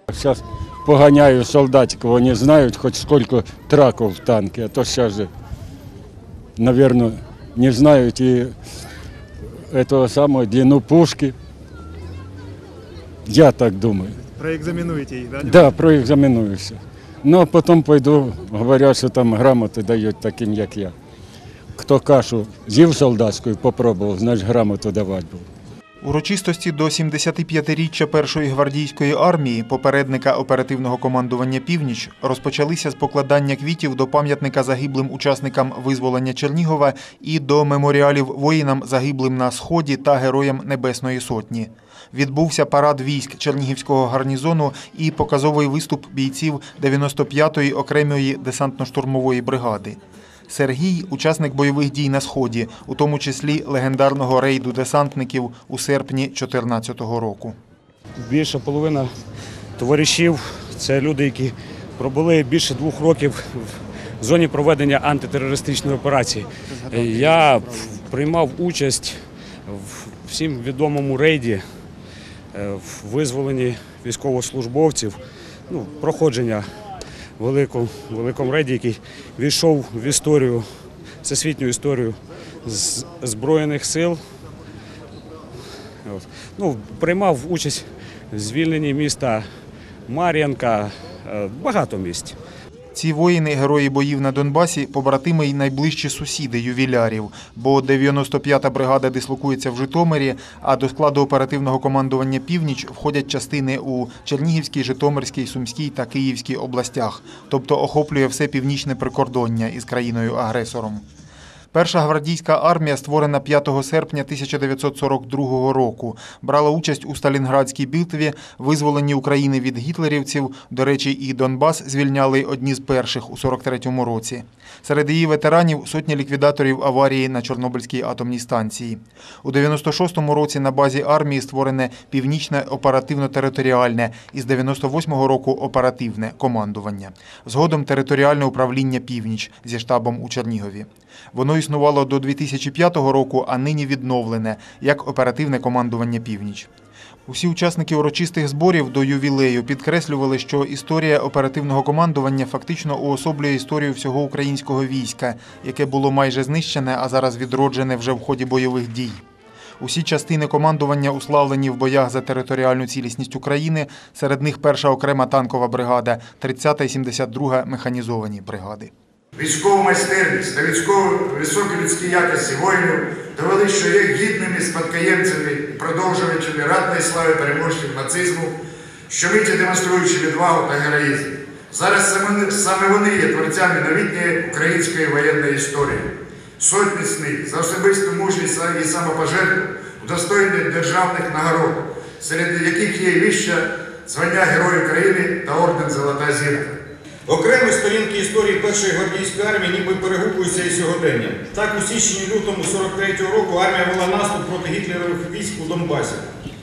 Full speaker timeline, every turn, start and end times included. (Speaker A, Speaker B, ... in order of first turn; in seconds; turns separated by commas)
Speaker A: 0.1-5.3, Speaker A: 6.6-8.5, Speaker A: 9.7-11.4, Speaker A: 13.3-14.2, Speaker B: 14.2-15.8, Speaker A: 15.4-20.9, Speaker A: 21.8-25.5, Speaker B: 26.0-50.0, Speaker B: 50.5-57.6, Speaker C: 58.2-59.1, Speaker C: 59.8-71.6, Speaker B: 66.7-67.9, Speaker C: 72.5-76.7, Speaker C: 77.4-80.7, Speaker C: 81.2-84.2, Speaker C: 86.0-89.4, Speaker C: 90.1-92.4, Speaker B: 92.9-111.0, Speaker B: 111.7-146.7, Speaker B: 147.3-159.2, Speaker B: 159.8-168.9, Speaker D: 169.3-178.6, Speaker D: 179.1-196.8, Speaker E: 197.3-206.3